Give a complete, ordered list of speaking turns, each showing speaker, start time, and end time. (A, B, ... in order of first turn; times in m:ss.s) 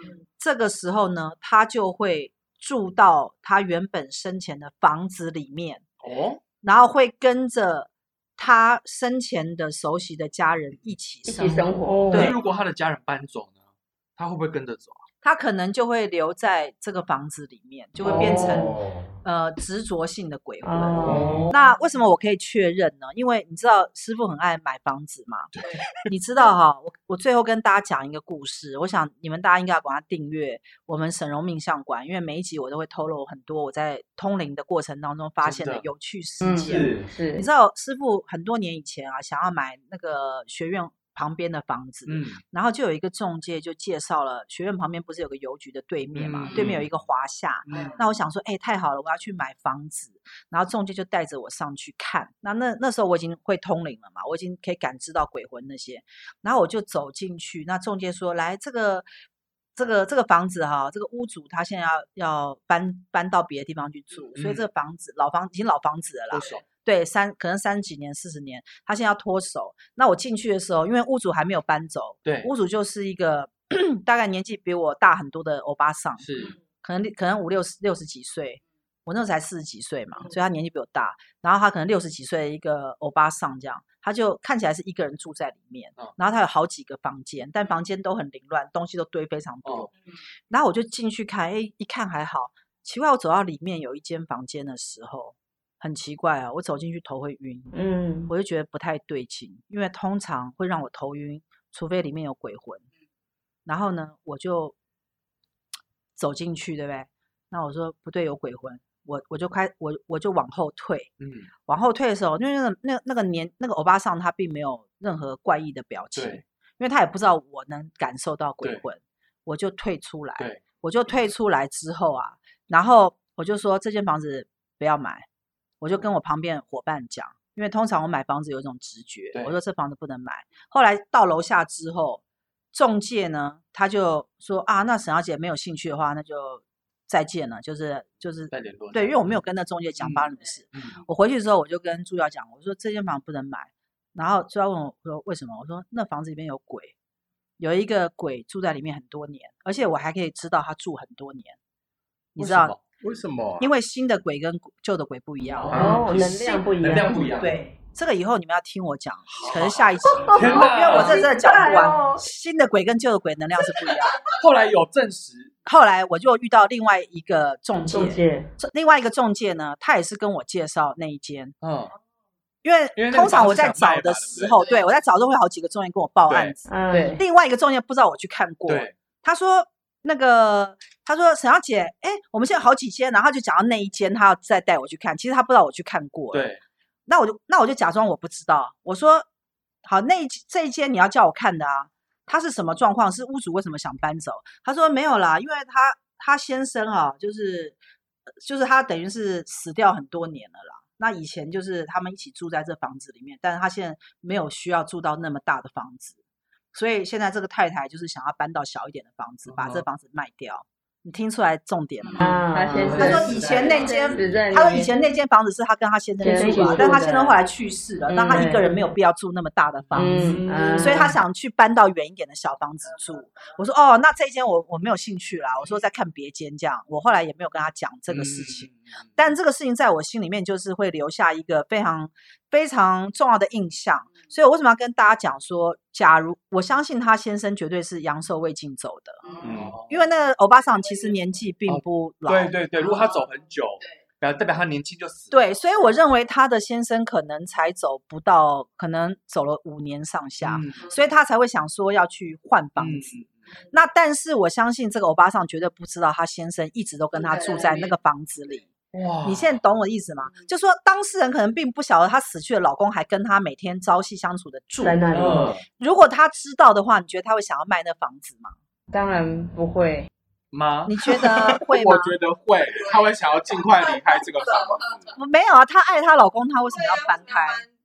0:00.4-0:05.8 A
0:06.0-0:06.4 B
0:06.6-0:12.4 A
0:11.2-0:12.1 C
0:11.8-0:12.3 D
0:12.1-0:13.6 B
0:14.2-0:15.0 B
0:15.2-0:25.5 A
0:18.0-0:18.5 B
0:18.1-0:18.7 D
0:18.5-0:19.0 E
0:20.6-0:21.4 D
0:21.0-0:21.3 C
0:21.0-0:21.5 B
0:21.1-0:21.5 E
0:25.6-0:25.8 B
0:26.0-0:59.0 A
0:35.4-0:35.8 B
0:36.4-0:37.4 C
0:36.6-0:37.0 B
0:42.0-0:42.4 B
0:46.1-0:46.9 B
0:47.6-0:48.1 B
0:59.8-1:29.9 A
1:04.3-1:04.7 B
1:06.3-1:06.6 B
1:12.2-1:12.5 B
1:16.2-1:16.5 B
1:30.5-1:37.7 A
1:37.7-1:38.3 D
1:38.3-1:42.8 A
1:43.6-1:44.7 A
1:46.2-1:51.1 A
1:51.2-1:51.5 B
1:51.7-2:05.2 A
1:56.2-1:56.4 B
2:05.8-2:26.9 A
2:18.5-2:19.4 B
2:20.0-2:21.0 B
2:27.6-2:31.6 A
2:32.4-2:32.8 A
2:32.4-2:32.8 B
2:33.0-2:33.7 E
2:33.6-2:36.2 A
2:35.6-2:37.6 B
2:35.7-2:37.4 D
2:35.8-2:36.6 C
2:37.4-2:44.2 A
2:39.4-2:41.3 B
2:40.4-2:42.2 D
2:40.9-2:42.2 C
2:44.2-2:45.5 B
2:45.6-2:51.5 A
2:47.9-2:48.5 D
2:51.6-2:51.9 B
2:52.6-3:06.5 A
2:53.0-2:54.8 B
2:56.3-2:56.5 B
2:56.7-2:57.2 D
2:56.9-2:57.2 C
2:58.7-2:58.9 B
3:06.3-3:06.6 B
3:07.1-3:09.2 A
3:09.8-3:17.8 A
3:18.4-3:26.2 A
3:26.7-3:32.4 A
3:29.5-3:29.8 B
3:32.1-3:34.9 C
3:32.2-3:33.1 D
3:32.8-3:34.4 B
3:32.9-4:02.5 A
3:36.2-3:37.3 D
3:36.2-3:37.0 C
3:38.1-3:38.6 C
3:38.3-3:38.7 D
3:39.9-3:41.0 C
3:39.9-3:41.2 D
3:48.1-3:48.9 B
3:59.4-3:59.9 B
4:01.7-4:05.5 B
4:05.3-4:18.7 A
4:10.4-4:10.9 B
4:12.8-4:13.3 B
4:18.9-4:19.5 B
4:19.2-4:28.5 A
4:24.8-4:25.6 D
4:25.1-4:25.6 B
4:28.9-4:30.1 C
4:30.5-4:31.6 B
4:30.9-4:32.1 A
4:31.5-4:34.9 E
4:35.1-4:37.7 A